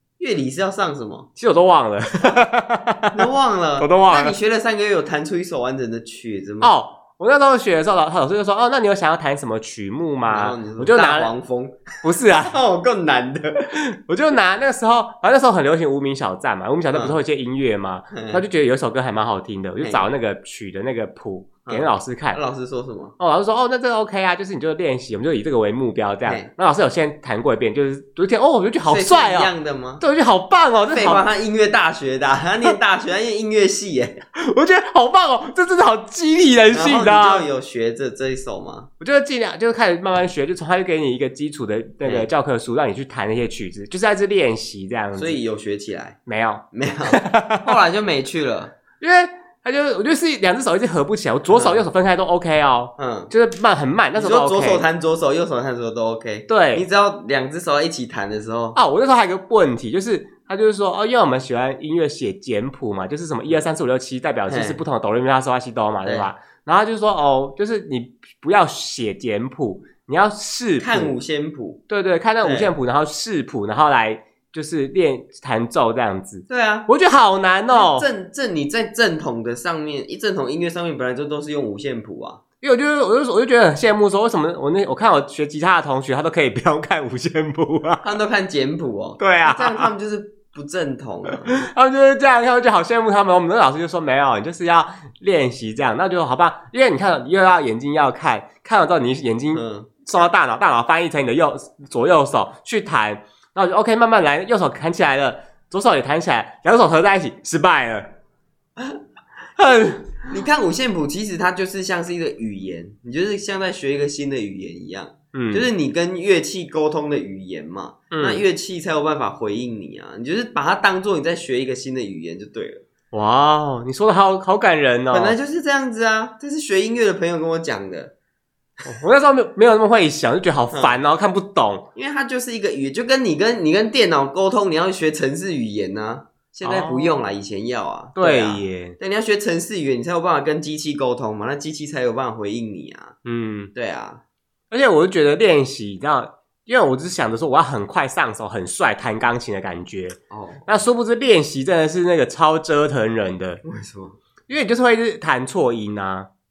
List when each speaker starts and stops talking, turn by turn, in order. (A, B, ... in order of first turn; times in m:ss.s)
0:00.2-0:01.3 A
0:01.4-0:03.3 B
0:03.1-0:06.7 A
0:03.8-0:04.3 B
0:06.6-0:11.3 B
0:10.3-0:13.7 A
0:12.0-0:12.6 B
0:13.7-0:22.4 B
0:16.9-0:17.2 A
0:18.1-0:18.4 A
0:19.8-0:20.1 A
0:21.6-0:23.2 A
0:23.2-0:31.2 B
0:26.2-0:26.5 A
0:28.9-0:30.0 A
0:30.9-0:34.2 A
0:34.4-0:37.4 B
0:36.7-0:38.9 A
0:39.0-0:45.4 B
0:42.0-0:42.3 A
0:45.1-0:46.2 A
0:46.2-0:47.7 B
0:46.7-0:48.7 A
0:49.0-0:54.8 B
0:51.5-0:51.8 A
0:53.0-0:53.3 A
0:54.1-0:58.8 A
0:56.5-0:56.8 B
0:58.7-1:11.1 B
1:04.5-1:04.8 A
1:06.0-1:06.3 A
1:10.8-1:11.8 A
1:11.9-1:18.1 B
1:12.4-1:12.7 A
1:16.5-1:16.9 A
1:17.7-1:22.4 A
1:22.6-1:28.1 B
1:28.0-1:31.6 A
1:29.2-1:29.9 B
1:31.3-1:48.1 B
1:39.5-1:39.9 A
1:49.6-1:50.2 B
1:50.2-2:02.8 A
1:55.3-1:55.7 B
1:58.1-1:58.4 B
2:03.1-2:05.4 B
2:05.1-2:08.1 A
2:08.8-2:11.8 B
2:10.7-2:11.0 A
2:12.0-2:23.2 A
2:16.6-2:17.2 B
2:18.2-2:19.0 B
2:23.2-2:23.7 B
2:23.7-2:24.2 A
2:24.7-2:33.6 B
2:30.3-2:30.8 A
2:33.6-2:34.2 A
2:34.5-2:36.3 B